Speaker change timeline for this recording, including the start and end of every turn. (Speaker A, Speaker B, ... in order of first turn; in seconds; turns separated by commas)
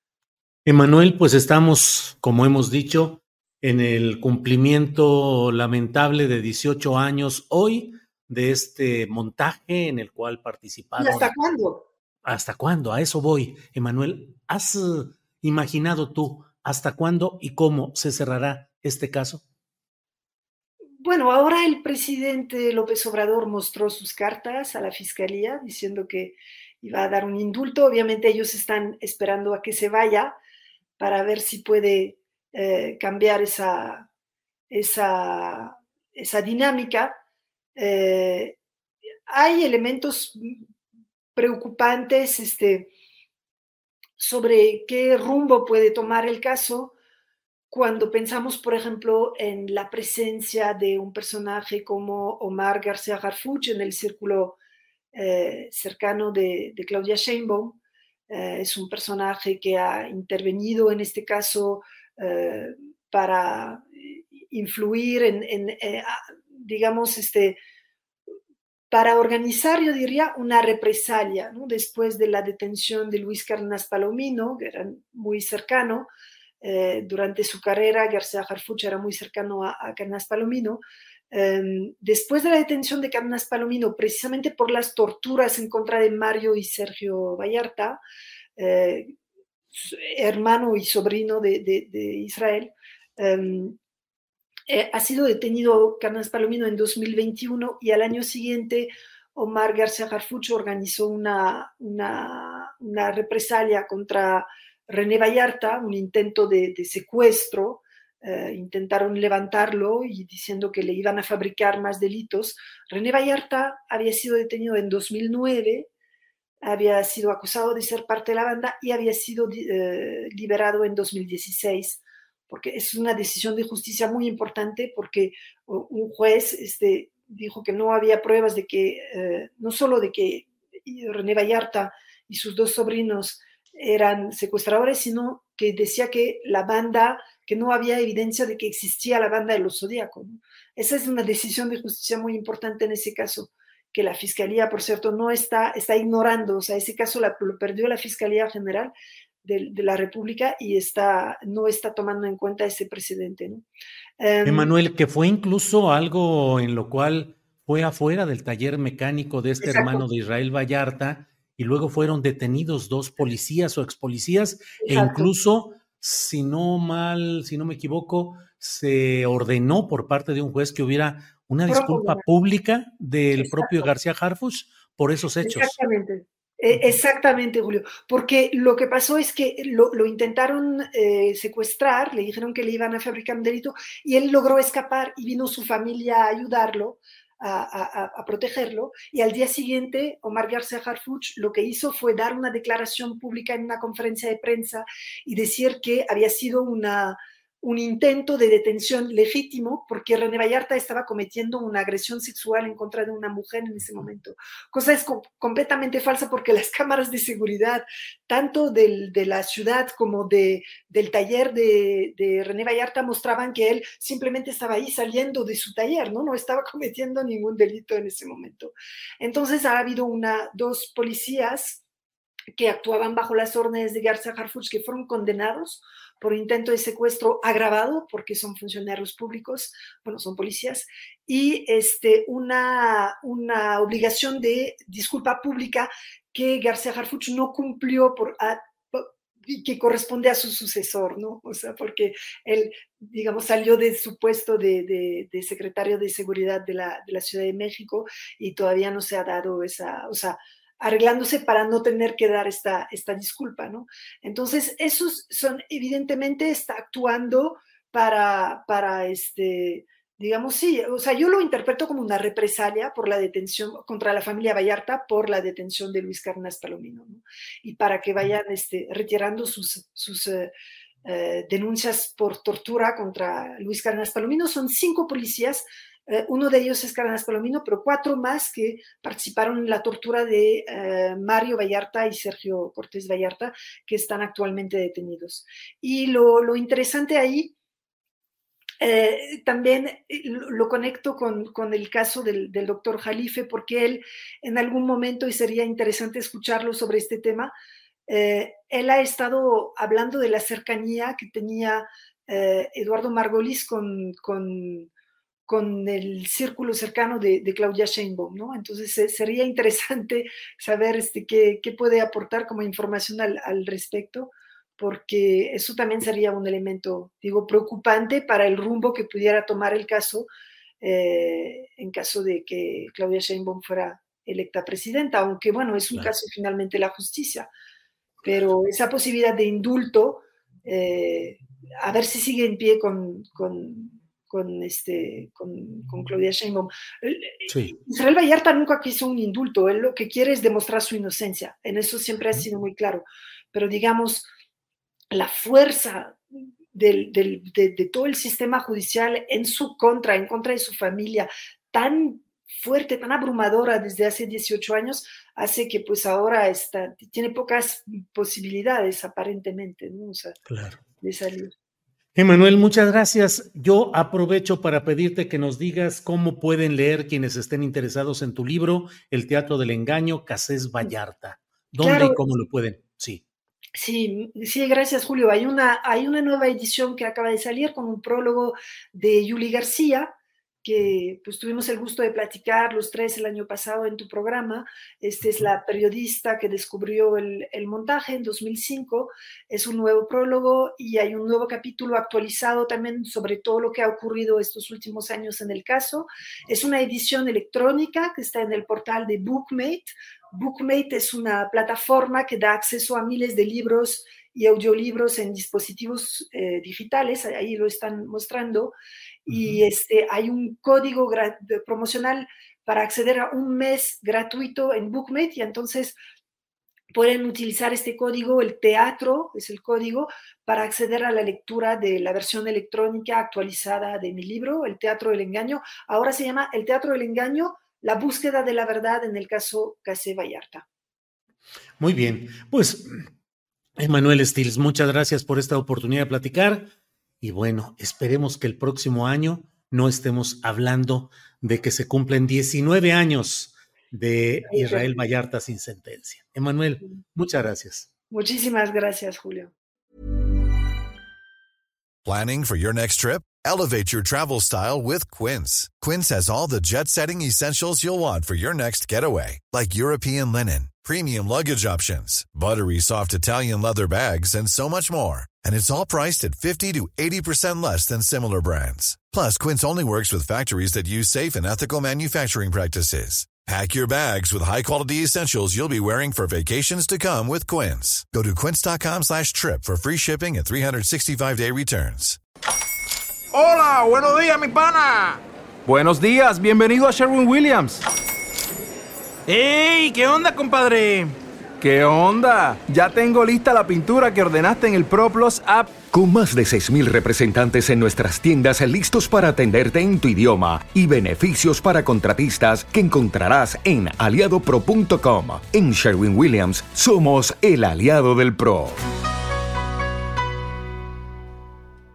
Speaker A: 0.7-11.3, Speaker B: 11.0-11.8, Speaker A: 12.2-19.4, Speaker B: 21.0-30.4, Speaker B: 31.0-34.1, Speaker B: 34.7-37.2, Speaker B: 37.8-38.6, Speaker B: 39.3-40.6, Speaker B: 41.3-42.9, Speaker B: 44.2-46.9, Speaker B: 47.7-54.6, Speaker B: 55.1-57.8, Speaker B: 58.3-67.6, Speaker B: 68.9-76.1, Speaker B: 76.6-88.0, Speaker B: 88.6-89.1, Speaker B: 89.7-93.8, Speaker B: 94.7-115.9, Speaker B: 116.6-148.9, Speaker B: 149.4-153.6, Speaker B: 154.2-154.7, Speaker A: 154.4-175.7, Speaker B: 159.6-160.0, Speaker B: 164.8-165.3, Speaker B: 171.7-172.2, Speaker B: 173.4-173.9, Speaker B: 175.4-221.8, Speaker B: 222.5-270.5, Speaker B: 271.0-287.5, Speaker B: 288.8-297.5, Speaker B: 298.1-304.9, Speaker B: 305.5-320.3, Speaker B: 320.8-327.5, Speaker B: 328.2-344.3, Speaker A: 337.5-337.7, Speaker B: 345.1-360.4, Speaker A: 360.5-360.8, Speaker B: 361.0-361.5, Speaker A: 362.1-373.2, Speaker B: 371.8-372.2, Speaker B: 373.8-380.1, Speaker B: 380.6-408.7, Speaker B: 409.3-416.0, Speaker A: 409.3-409.6, Speaker B: 416.9-430.6, Speaker A: 431.8-433.0, Speaker A: 433.8-436.7, Speaker A: 437.2-447.9, Speaker B: 444.5-445.0, Speaker B: 448.1-449.5, Speaker C: 452.0-482.2, Speaker D: 483.3-487.8, Speaker D: 489.3-495.8, Speaker E: 495.9-508.8